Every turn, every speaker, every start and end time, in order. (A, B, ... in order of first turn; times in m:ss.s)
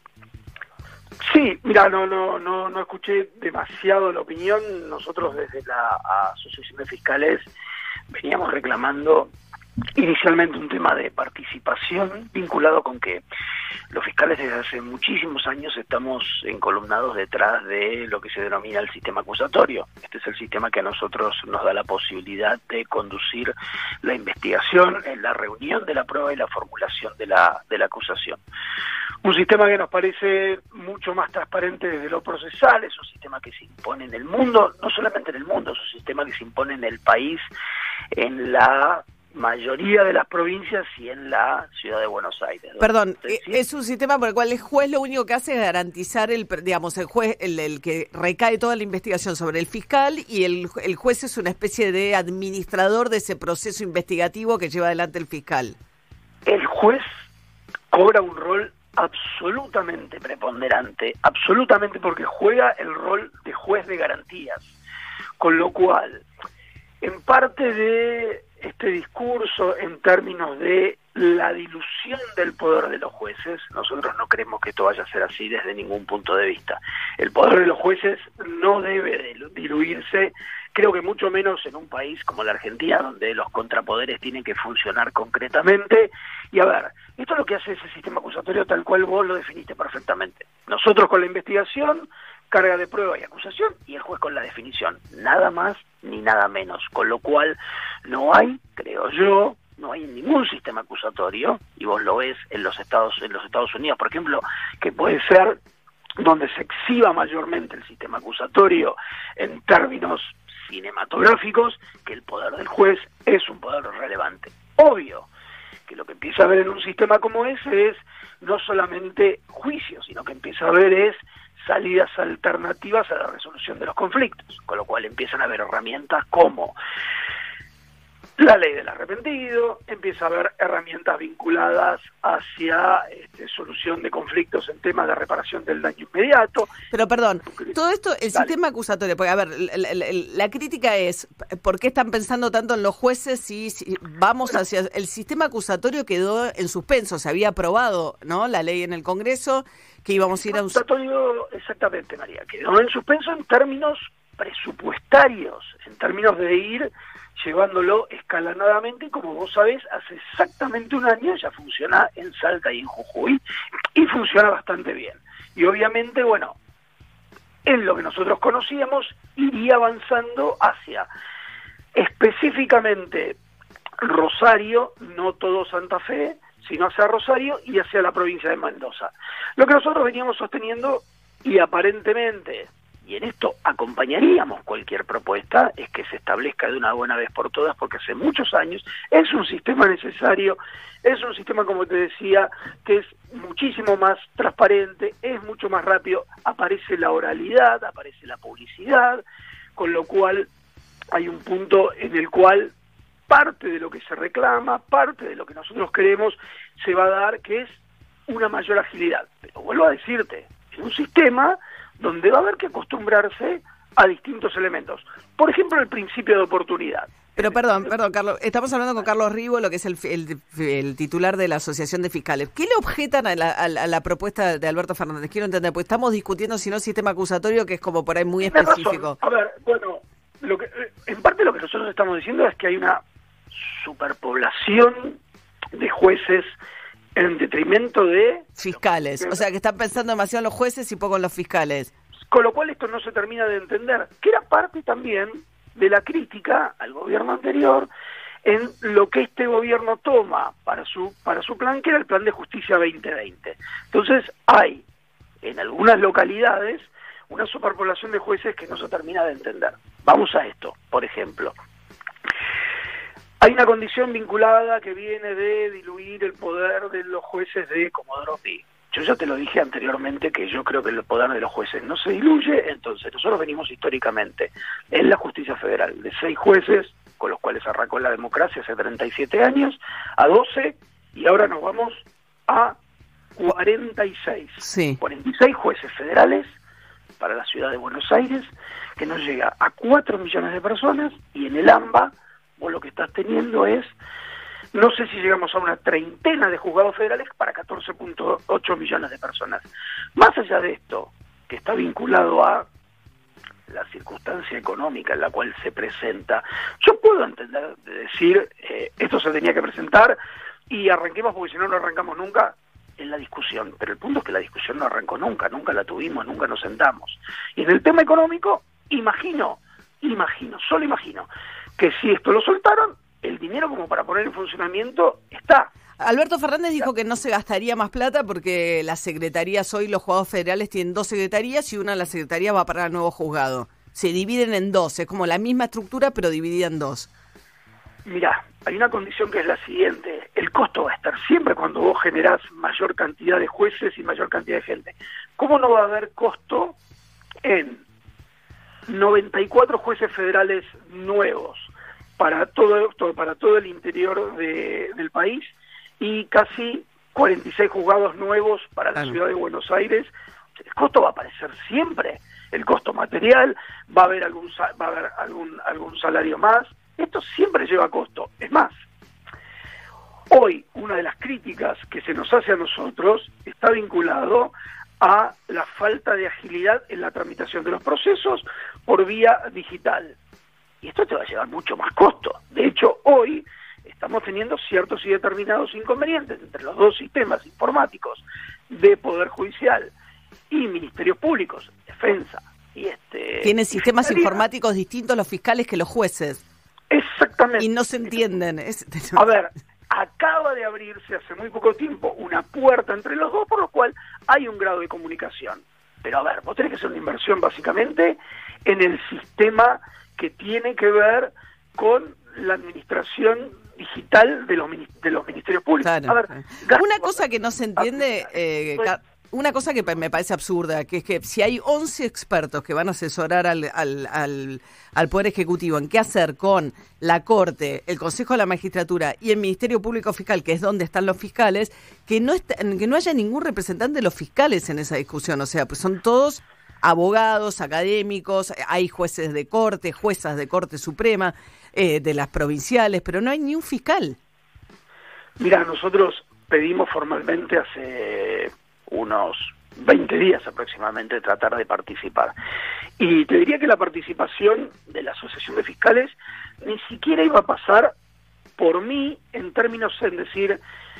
0:01.2-0:07.5 A
0:08.1-0:09.3 A
0:10.0-0:13.2 A
0:13.9-0:28.4 A
0:29.2-0:37.4 A
0:38.2-0:43.6 A
0:42.8-0:55.8 B
0:56.4-0:57.0 A
0:57.9-1:04.7 A
1:05.4-1:06.2 A
1:07.0-1:45.6 A
1:46.2-1:55.3 A
1:55.9-2:06.7 A
2:08.4-2:16.8 A
2:16.9-2:30.8 B
2:30.4-2:43.4 A
2:44.0-2:46.6 A
2:47.6-2:51.1 A
2:51.9-2:53.4 A
2:54.0-3:19.2 A
3:19.8-3:20.5 A
3:21.1-3:22.7 A
3:23.3-3:27.8 A
3:28.3-3:37.9 A
3:37.4-3:49.2 B
3:48.4-3:53.0 A
3:53.6-3:55.2 A
3:55.7-3:56.5 A
3:57.2-3:58.6 A
3:58.6-4:01.9 B
4:02.3-4:07.9 A
4:08.4-4:14.8 A
4:15.4-4:21.5 A
4:23.4-4:42.8 A
4:43.4-4:46.5 A
4:44.6-4:45.0 B
4:47.2-4:53.9 A
4:54.7-5:02.7 A
5:03.7-5:10.2 A
5:10.7-5:25.7 A
5:26.0-5:37.1 B
5:38.0-5:46.8 A
5:47.4-5:47.8 A
5:48.9-6:00.1 A
6:00.7-6:08.7 A
6:10.3-6:20.2 A
6:20.8-6:29.9 A
6:30.5-6:34.4 A
6:33.4-6:36.4 B
6:36.9-6:38.2 A
6:37.6-6:39.2 B
6:39.1-6:57.2 A
6:55.8-7:24.2 B
6:57.8-6:58.2 A
7:25.4-7:32.3 A
7:33.0-7:37.9 A
7:38.6-7:40.6 A